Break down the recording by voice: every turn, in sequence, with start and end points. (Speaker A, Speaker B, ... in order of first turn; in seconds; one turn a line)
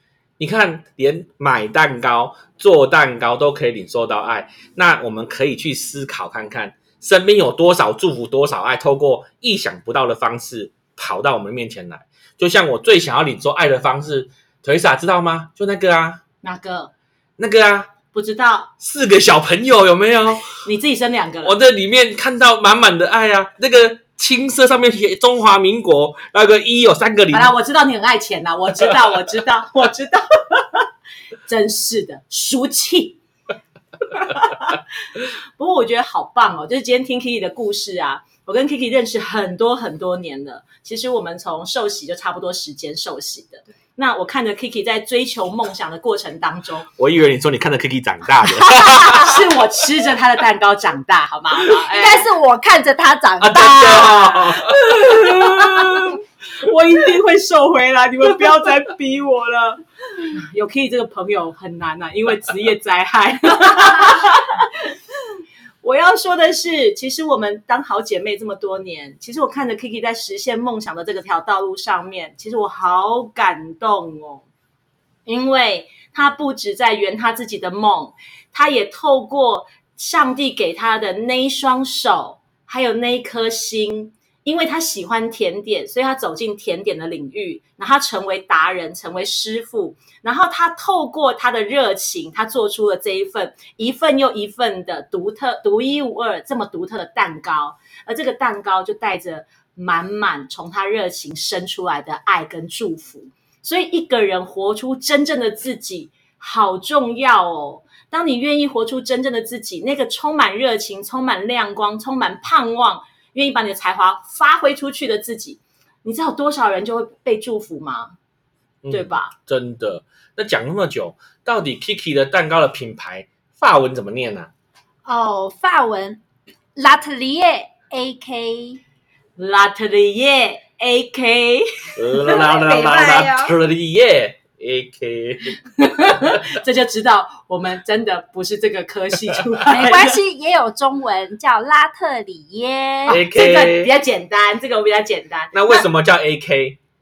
Speaker A: 0.4-16.2
Speaker B: 16.4-16.9
Speaker A: 17.4-17.9
Speaker B: 18.1-18.7
Speaker A: 18.8-20.6
Speaker B: 20.6-21.5
Speaker A: 21.4-27.5
Speaker B: 27.3-30.9
Speaker B: 31.4-33.2
Speaker B: 34.1-34.8
Speaker B: 35.6-46.9
Speaker A: 47.0-49.3
Speaker B: 48.9-52.2
Speaker C: 51.8-54.6
Speaker A: 53.4-56.2
Speaker B: 54.7-64.8
Speaker B: 65.8-74.5
Speaker B: 75.2-118.2
Speaker A: 118.8-124.5
Speaker B: 118.9-119.3
Speaker C: 125.0-126.2
Speaker C: 126.8-128.8
Speaker B: 129.4-131.9
Speaker A: 131.9-136.4
Speaker C: 132.2-133.5
Speaker B: 135.8-140.2
Speaker C: 139.7-143.2
Speaker B: 143.1-145.8
Speaker A: 143.1-143.9
Speaker A: 145.5-146.8